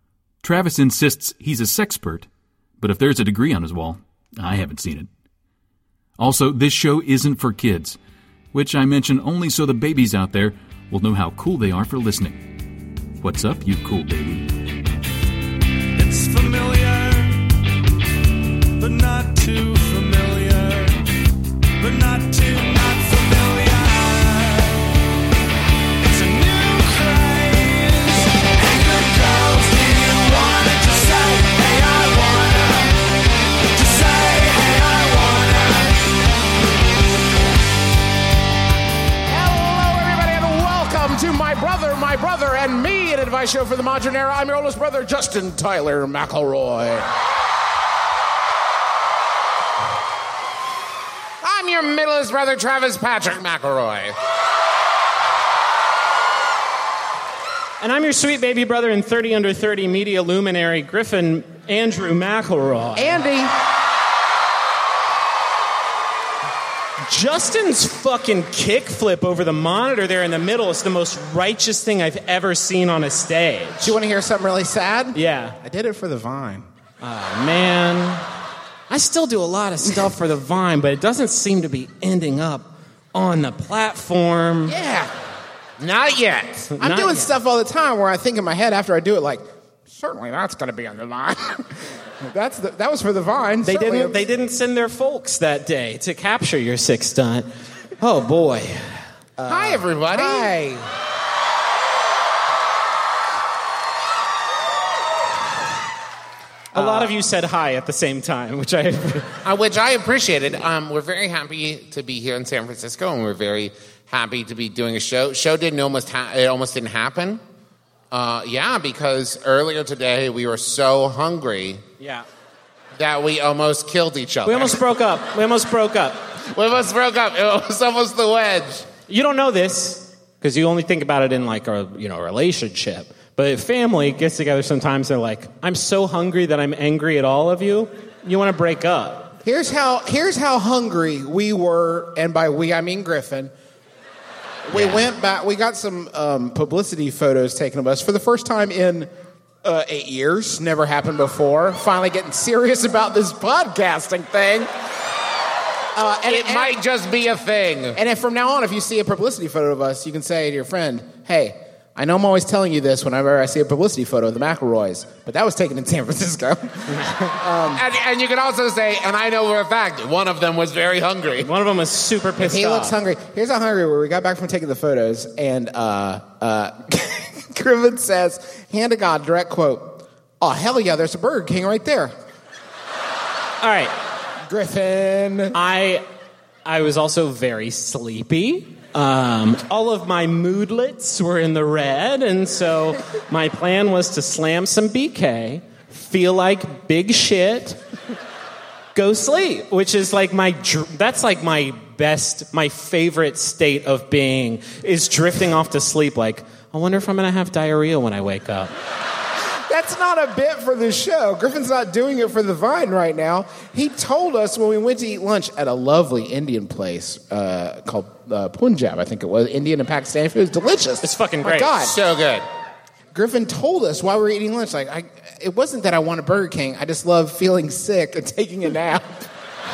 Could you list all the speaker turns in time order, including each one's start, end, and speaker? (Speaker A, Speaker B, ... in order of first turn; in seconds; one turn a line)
Speaker A: 0.4-2.3
Speaker A: 2.8-5.1
Speaker A: 6.2-8.0
Speaker A: 8.5-12.5
Speaker A: 13.2-14.5
Speaker B: 15.9-17.4
Speaker B: 18.8-21.0
Speaker B: 21.8-24.8
Speaker B: 26.0-33.0
Speaker B: 33.7-36.2
Speaker C: 39.2-47.1
Speaker D: 51.4-54.1
Speaker E: 57.8-63.1
Speaker C: 63.0-63.5
Speaker E: 67.0-73.9
Speaker C: 73.8-76.7
Speaker E: 75.1-75.6
Speaker E: 77.0-78.2
Speaker E: 78.9-84.8
Speaker C: 84.7-85.1
Speaker D: 85.8-86.7
Speaker E: 86.8-87.3
Speaker C: 86.8-94.2
Speaker E: 93.6-97.5
Speaker E: 98.0-99.0
Speaker C: 99.4-100.9
Speaker D: 99.5-100.5
Speaker C: 106.7-107.1
Speaker E: 106.7-109.3
Speaker D: 109.4-117.4
Speaker D: 118.1-121.8
Speaker E: 122.0-122.2
Speaker D: 123.0-124.8
Speaker E: 124.4-126.2
Speaker D: 126.5-128.8
Speaker E: 129.1-139.3
Speaker C: 139.4-143.5
Speaker C: 144.7-149.1
Speaker C: 149.6-154.7
Speaker C: 155.9-156.8
Speaker D: 156.3-158.0
Speaker C: 157.9-167.8
Speaker E: 167.1-167.3
Speaker D: 167.7-171.5
Speaker E: 171.4-173.0
Speaker C: 172.4-182.1
Speaker E: 183.6-183.9
Speaker C: 184.4-185.6
Speaker E: 185.5-186.1
Speaker E: 186.7-197.8
Speaker E: 198.9-208.7
Speaker C: 209.7-222.0
Speaker E: 221.0-221.7
Speaker D: 221.8-222.4
Speaker C: 223.1-229.2